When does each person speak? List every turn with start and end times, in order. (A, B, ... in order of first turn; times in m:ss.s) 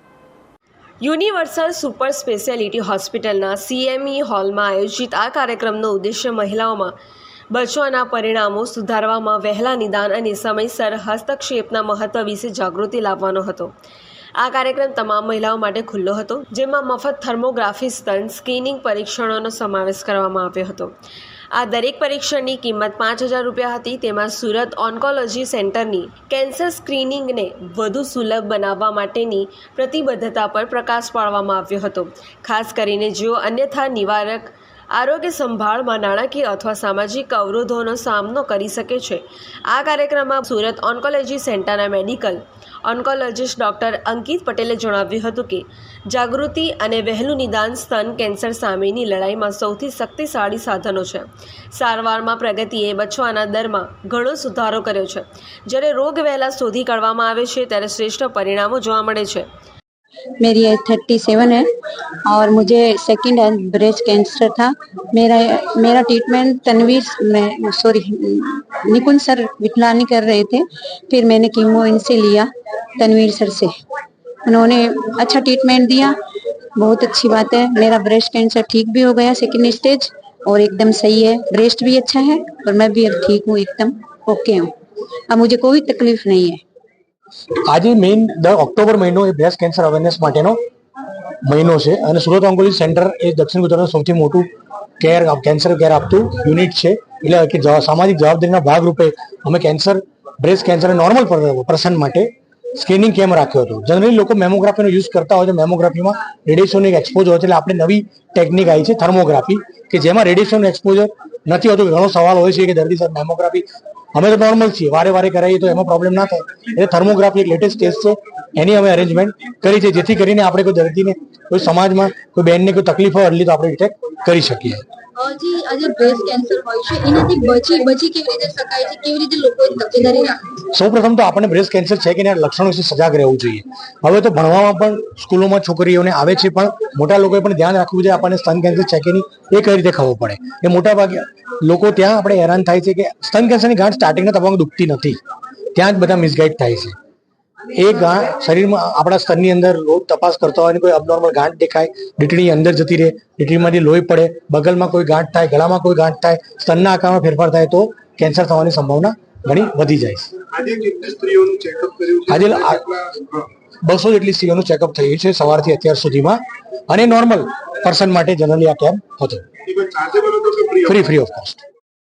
0:01.0-0:06.9 A
0:07.5-0:13.7 A
0:14.4-0:20.9 A
0:21.5-0:59.5 A
1:00.4-1:01.7 B
1:02.3-1:13.7 B
1:14.5-1:16.2 B
1:16.8-1:24.7 B
1:25.3-1:26.6 B
1:27.7-1:30.6 C
1:31.4-1:34.5 C
1:35.0-2:04.8 C
2:05.2-2:10.6 D
2:10.7-2:25.2 C
2:25.8-2:27.0 C
2:27.7-2:40.3 C
2:40.5-2:43.1 E
2:42.3-2:42.9 C
2:43.8-2:49.4 C
2:49.7-2:50.9 E
2:50.8-2:51.6 C